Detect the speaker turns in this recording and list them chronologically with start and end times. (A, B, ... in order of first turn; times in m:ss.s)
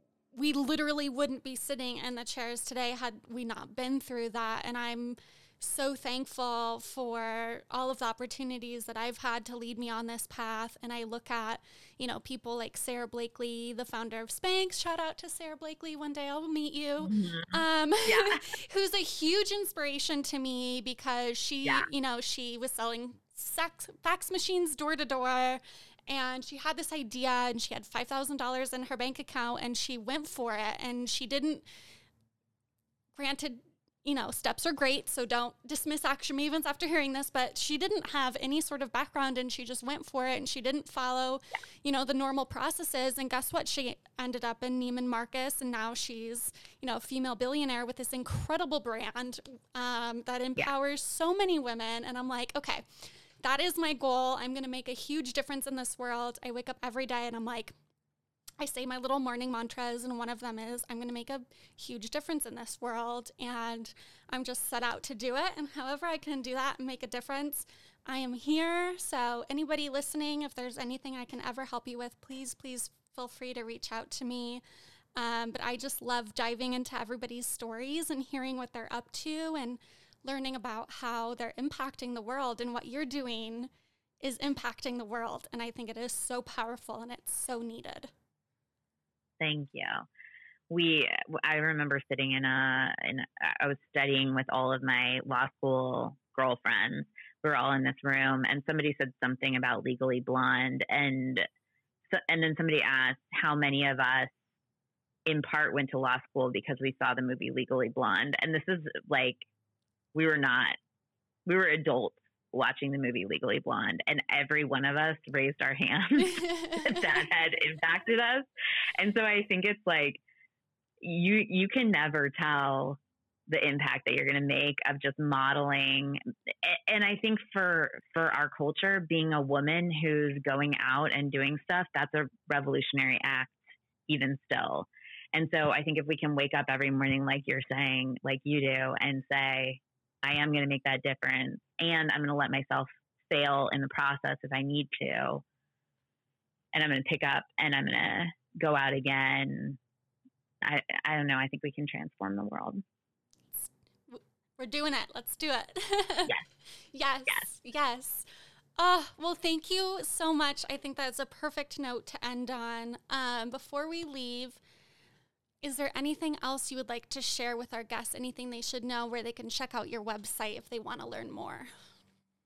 0:00.3-0:31.6 A
0:17.0-0:18.4 B
0:33.1-0:57.7 A
0:58.6-1:14.6 A
1:15.2-1:23.7 A
1:24.2-1:28.1 A
1:29.4-1:30.0 B
1:30.7-1:41.4 B
1:42.1-1:44.3 B
1:45.2-1:49.5 B
1:50.1-1:50.8 B
1:51.4-2:00.2 B
1:56.2-1:57.2 A
2:01.0-2:13.6 B
2:14.1-2:25.4 B
2:26.7-2:29.8 B
2:30.6-2:32.8 B
2:33.5-2:38.2 A
2:38.8-2:44.6 A
2:45.6-2:51.7 A